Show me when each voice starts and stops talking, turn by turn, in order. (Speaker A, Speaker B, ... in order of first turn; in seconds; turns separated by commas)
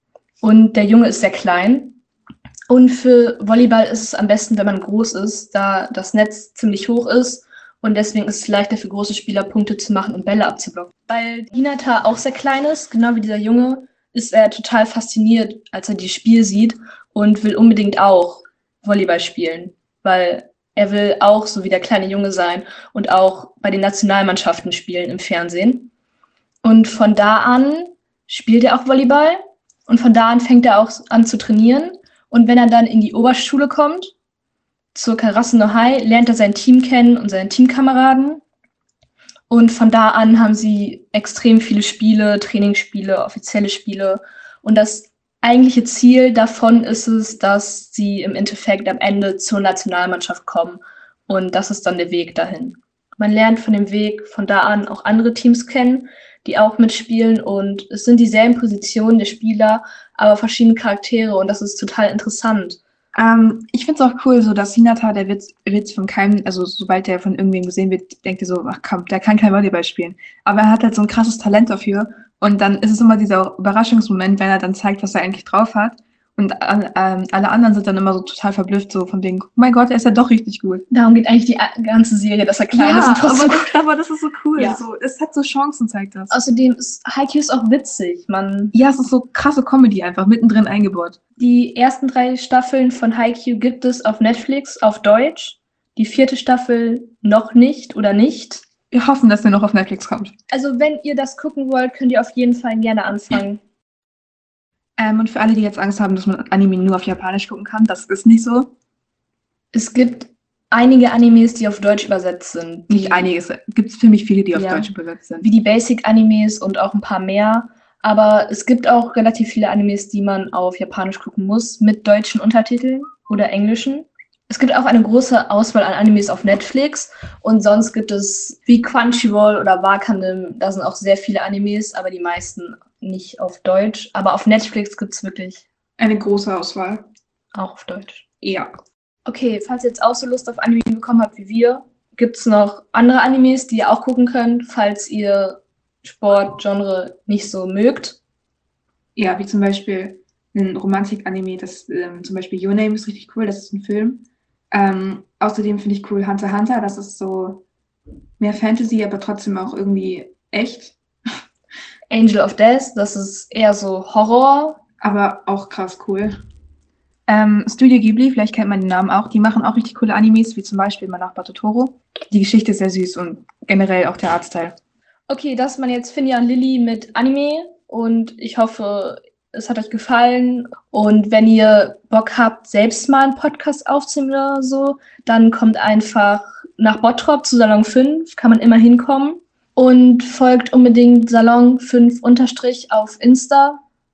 Speaker A: 0.4-2.0, Speaker A: 2.7-25.9, Speaker A: 26.6-34.1, Speaker A: 34.9-38.4, Speaker A: 39.5-62.8, Speaker B: 63.1-80.8, Speaker A: 80.9-83.7, Speaker B: 82.7-86.4, Speaker A: 84.6-84.8, Speaker A: 86.3-88.7, Speaker B: 88.7-91.2, Speaker A: 91.4-98.7, Speaker B: 98.9-100.3, Speaker A: 100.5-103.6, Speaker B: 105.0-108.7, Speaker A: 109.7-113.3, Speaker B: 112.9-115.5, Speaker A: 114.5-135.7, Speaker B: 136.0-137.1, Speaker A: 137.5-138.2, Speaker B: 138.4-138.7, Speaker A: 139.3-148.2, Speaker B: 149.2-157.7, Speaker B: 158.4-161.0, Speaker A: 162.1-164.8, Speaker B: 165.0-166.4, Speaker B: 167.3-174.8, Speaker A: 175.3-193.8